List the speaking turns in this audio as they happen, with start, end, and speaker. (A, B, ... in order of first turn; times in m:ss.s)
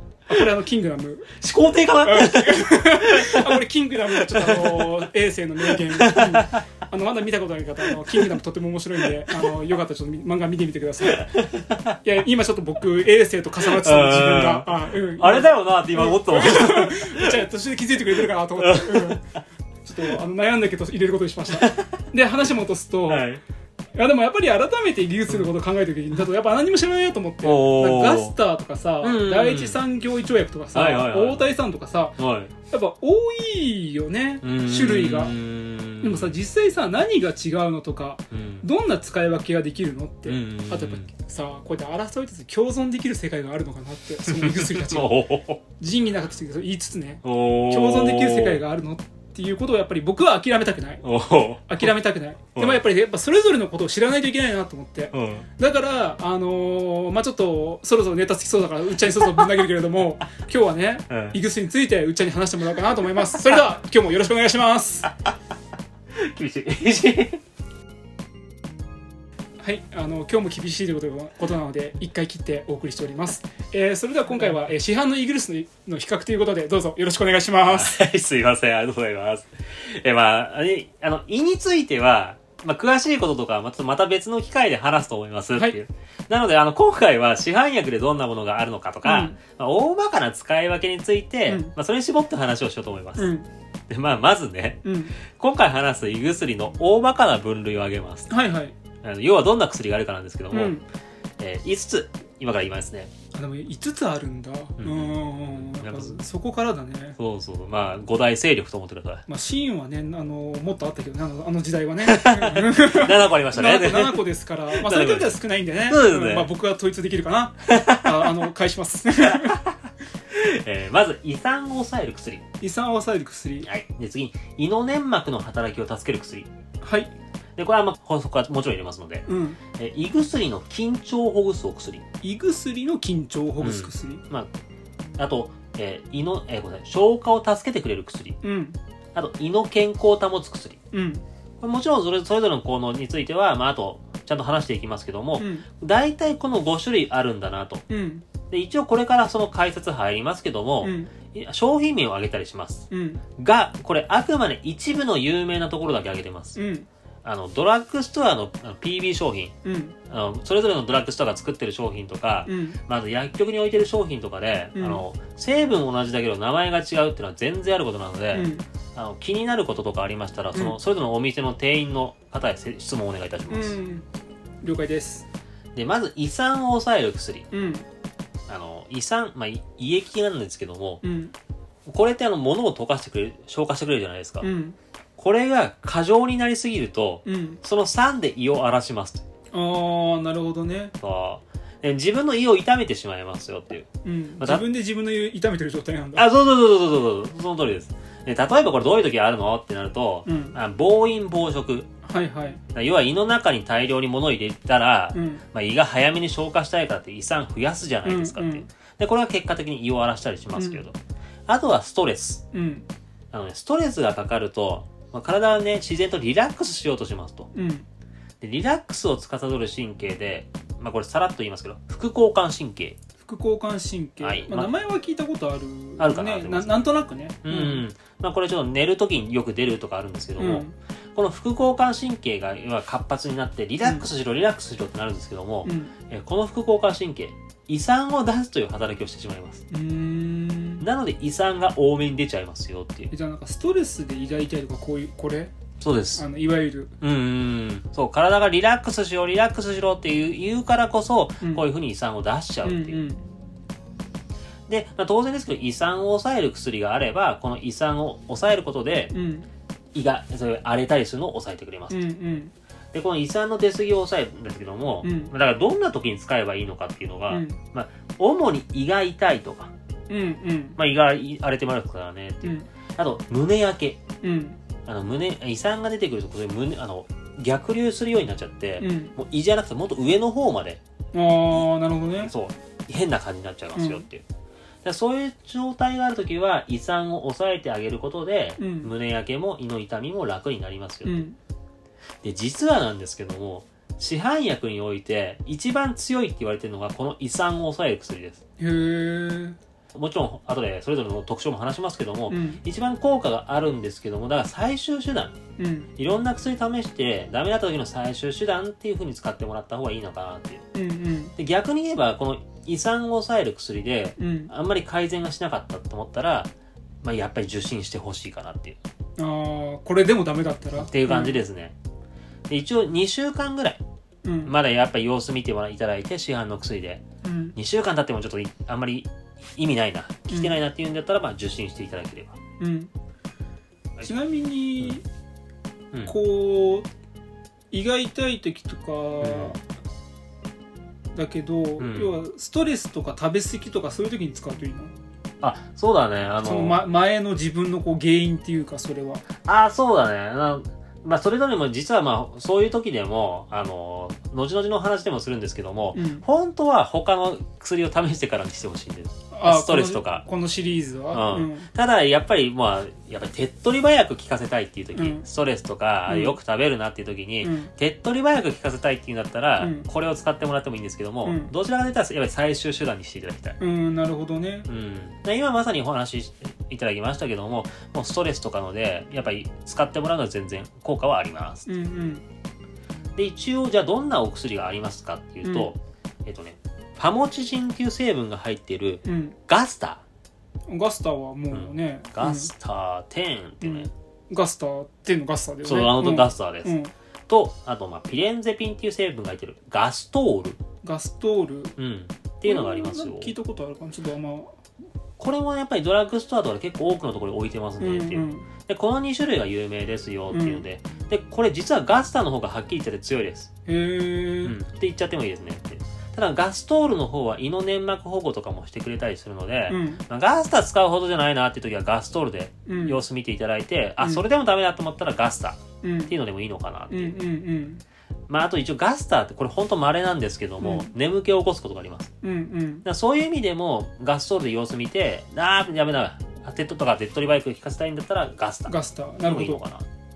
0:00.3-0:01.4 A
0:01.4-0:03.6 B
0:02.0-0:11.4 A
0:04.1-0:05.0 B
0:05.7-0:06.6 B
0:11.1-0:11.9 B
0:12.0-0:19.2 A
0:13.6-0:17.4 B
0:18.6-0:19.2 B
0:19.8-0:23.3 A
0:21.5-0:21.9 B
0:23.1-0:23.4 B
0:24.0-0:35.4 A
0:27.4-0:28.3 B
0:29.0-0:29.8 B
0:30.7-0:31.5 B
0:32.2-0:32.5 B
0:34.4-0:36.4 B
0:36.0-0:45.2 A
0:38.3-0:38.7 B
0:40.2-0:41.1 B
0:44.2-0:45.6 B
0:45.8-0:51.1 A
0:47.2-0:48.6 B
0:51.0-0:51.9 B
0:51.7-1:05.1 A
0:52.6-0:52.8 B
0:55.1-0:55.5 B
1:01.1-1:01.4 B
1:06.2-1:07.4 B
1:09.6-1:18.0 A
1:17.7-1:33.3 B
1:29.0-1:29.4 A
1:31.5-1:31.7 A
1:33.2-1:33.5 A
1:33.9-1:38.3 B
1:34.8-1:35.2 A
1:38.3-1:38.8 A
1:39.0-1:40.8 B
1:40.5-1:40.9 A
1:41.4-1:43.1 B
1:43.3-1:47.2 A
1:44.8-1:46.2 B
1:47.2-1:49.2 B
1:49.3-1:59.7 A
1:52.0-1:56.5 B
1:57.7-1:58.4 B
1:59.3-1:59.6 B
2:00.3-2:02.4 B
2:02.6-2:03.7 A
2:03.6-2:06.5 B
2:06.8-2:07.1 A
2:07.6-2:12.0 B
2:09.3-2:09.6 A
2:12.2-2:14.2 A
2:13.6-2:14.5 B
2:15.2-2:18.4 B
2:18.4-2:18.8 A
2:19.1-2:20.8 B
2:20.9-2:21.2 A
2:21.6-2:27.8 B
2:25.4-2:25.7 A
2:27.9-2:28.2 A
2:28.5-2:32.9 B
2:30.8-2:31.1 A
2:32.9-2:33.2 A
2:33.4-2:36.6 B
2:36.6-2:36.9 A
2:37.2-2:39.6 B
2:39.6-2:40.0 A
2:40.1-2:53.8 B
2:42.4-2:42.8 A
2:44.8-2:45.0 A
2:48.3-2:48.7 A
2:53.5-2:54.1 A
2:54.6-2:55.3 A
2:55.7-2:57.5 B
2:57.5-2:57.8 A
2:58.5-3:01.0 B
3:01.0-3:01.4 A
3:01.9-3:04.5 B
3:04.4-3:04.8 A
3:05.2-3:09.2 B
3:07.2-3:07.6 A
3:09.5-3:10.9 A
3:11.0-3:13.9 B
3:14.0-3:16.3 A
3:14.4-3:14.6 B
3:16.2-3:21.9 B
3:20.2-3:20.6 A
3:22.0-3:22.6 A
3:22.7-3:31.0 B
3:25.1-3:25.4 A
3:28.0-3:28.7 A
3:30.6-3:30.8 A
3:31.5-3:32.4 B
3:32.5-3:32.9 A
3:33.3-3:37.5 B
3:37.5-3:37.9 A
3:38.4-3:43.0 B
3:43.2-3:47.8 A
3:44.2-3:44.7 B
3:46.0-3:46.9 B
3:47.4-3:59.6 B
3:50.4-3:50.7 A
3:55.6-3:55.9 A
3:59.7-4:00.8 A
4:00.8-4:03.1 B
4:03.1-4:05.5 A
4:05.8-4:06.2 B
4:06.1-4:06.9 A
4:07.0-4:13.0 B
4:12.6-4:13.2 A
4:14.7-4:19.1 B
4:19.1-4:19.5 A
4:19.9-4:22.0 B
4:21.9-4:22.5 A
4:22.9-4:29.7 B
4:25.0-4:25.3 A
4:27.3-4:27.6 A
4:30.1-4:30.8 A
4:30.8-4:34.0 B
4:32.4-4:32.7 A
4:34.2-4:34.6 A
4:34.9-4:40.8 B
4:38.8-4:39.1 A
4:41.1-4:42.3 A
4:42.2-4:44.2 B
4:43.8-4:44.1 A
4:44.8-4:51.2 B
4:48.6-4:48.9 A
4:51.0-4:51.4 A
4:52.2-4:58.4 B
4:58.6-4:59.6 A
4:59.9-5:05.4 B
5:02.3-5:02.6 A
5:05.6-5:05.9 A
5:06.0-5:10.6 B
5:10.7-5:11.4 A
5:11.4-5:16.5 B
5:14.2-5:14.5 A
5:17.0-5:18.8 B
5:19.2-5:21.4 A
5:20.8-5:21.8 B
5:22.5-5:23.8 B
5:24.2-5:24.5 A
5:24.4-5:27.0 B
5:27.2-5:27.6 A
5:27.6-5:32.4 B
5:30.3-5:30.6 A
5:32.6-5:32.9 A
5:34.0-5:35.0 A
5:36.0-5:36.9 A
5:37.7-5:39.6 A
5:39.2-5:39.6 B
5:41.1-5:44.9 A
5:41.8-5:42.2 B
5:45.4-5:46.8 B
5:46.4-5:49.3 A
5:49.4-6:00.2 B
5:55.9-5:56.2 A
5:59.3-6:01.7 A
6:01.1-6:13.6 B
6:04.9-6:05.2 A
6:06.1-6:06.4 A
6:07.4-6:07.7 A
6:09.6-6:09.9 A
6:11.2-6:11.5 A
6:13.6-6:14.7 A
6:14.7-6:21.7 B
6:21.7-6:22.2 A
6:23.2-6:30.0 B
6:25.4-6:25.7 A
6:29.0-6:29.4 A
6:30.7-6:32.5 A
6:31.5-6:33.9 B
6:33.6-6:36.9 A
6:35.6-6:36.7 B
6:37.3-6:40.6 B
6:40.8-6:41.8 A
6:41.8-6:43.3 B
6:42.4-6:44.6 A
6:45.2-6:53.5 B
6:47.8-6:48.5 A
6:50.3-6:50.6 A
6:53.7-6:54.6 A
6:54.4-7:07.2 B
6:59.7-7:00.0 A
7:02.7-7:03.0 A
7:05.8-7:06.2 A
7:06.9-7:07.8 A
7:08.3-7:12.1 B
7:10.6-7:10.9 A
7:12.2-7:12.8 A
7:12.8-7:19.8 B
7:18.7-7:19.6 A